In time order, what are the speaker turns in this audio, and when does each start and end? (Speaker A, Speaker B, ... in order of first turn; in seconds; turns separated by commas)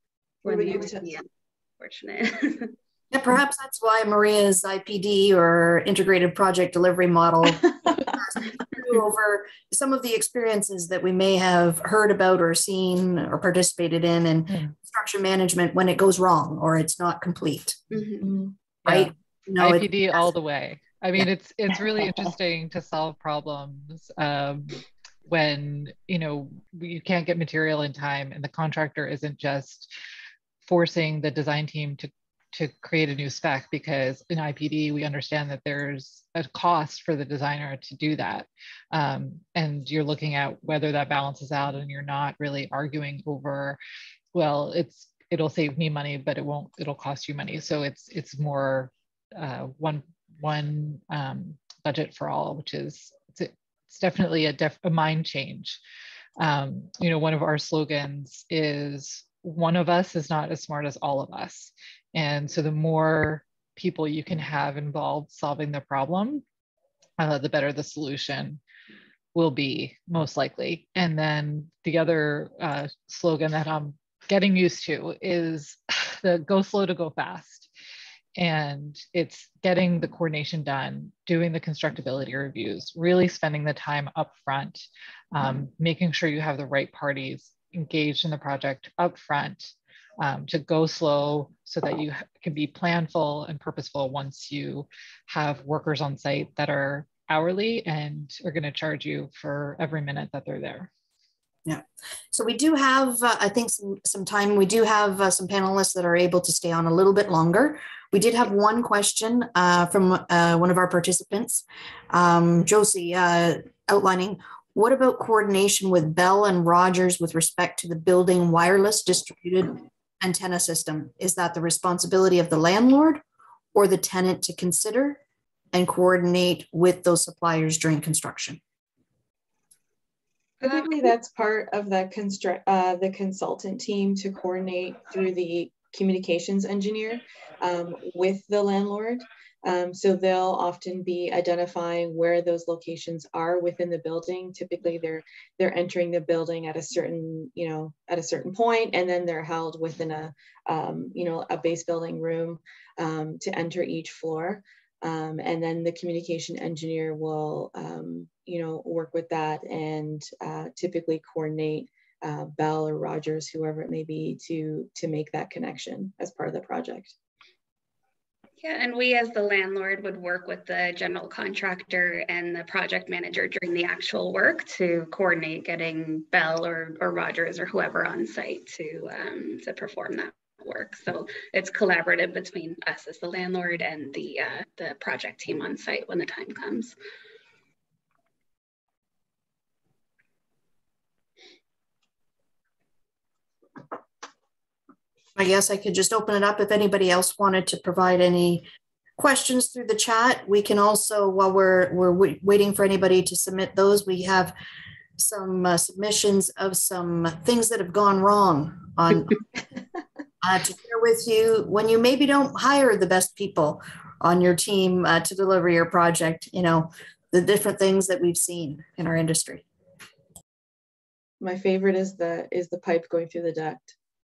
Speaker A: 0.4-1.1, Speaker B: 0.4-1.2, Speaker B: 1.8-2.7, Speaker C: 3.1-17.8, Speaker A: 7.5-8.2, Speaker B: 17.9-18.4, Speaker A: 18.2-18.6, Speaker D: 18.8-29.9, Speaker C: 18.9-20.3, Speaker D: 30.6-43.8, Speaker D: 44.3-55.8, Speaker D: 56.4-66.4, Speaker D: 67.2-68.6, Speaker D: 69.3-77.7, Speaker D: 78.3-100.9, Speaker C: 101.7-123.2, Speaker C: 123.7-125.2, Speaker C: 125.7-128.6, Speaker A: 130.6-167.1, Speaker B: 168.6-186.9, Speaker C: 195.3-198.7, Speaker C: 199.2-204.5, Speaker C: 205.2-209.3, Speaker C: 210.4-219.6, Speaker A: 221.4-223.9